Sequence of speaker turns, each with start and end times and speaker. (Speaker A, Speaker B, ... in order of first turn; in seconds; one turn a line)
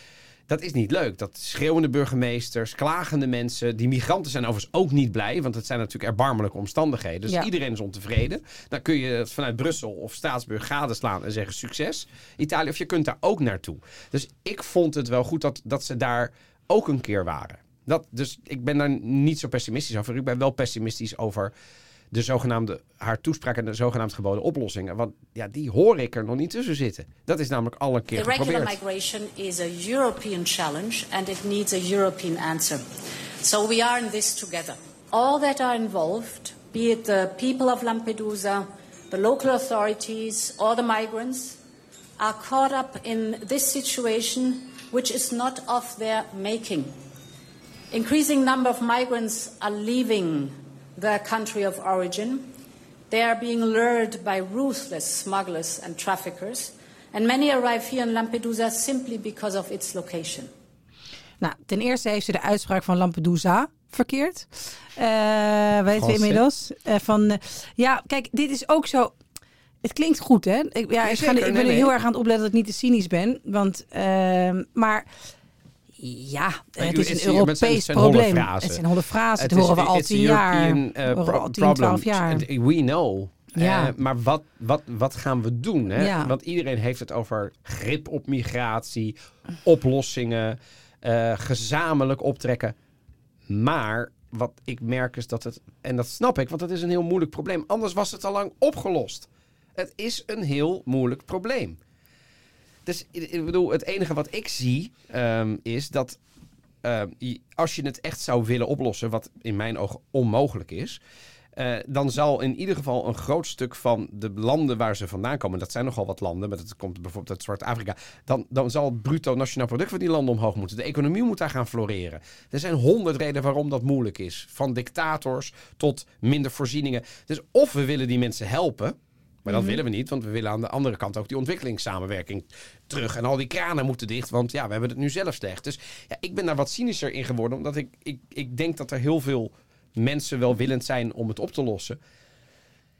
Speaker A: 0.5-21.5
Speaker A: 22.1-28.7
Speaker B: 28.1-32.8
Speaker B: 33.4-41.6
Speaker B: 42.2-46.9
Speaker B: 47.9-52.5
Speaker B: 53.1-60.5
Speaker C: 61.4-69.1
Speaker A: 65.9-66.4
Speaker C: 69.8-75.1
Speaker A: 71.0-71.9
Speaker C: 76.0-82.4
Speaker A: 76.8-78.8
Speaker A: 79.4-92.7
Speaker C: 83.6-83.9
Speaker C: 86.0-86.3
Speaker A: 93.5-101.8
Speaker A: 102.8-106.2
Speaker A: 106.8-111.0
Speaker A: 111.5-142.0
Speaker C: 129.5-129.8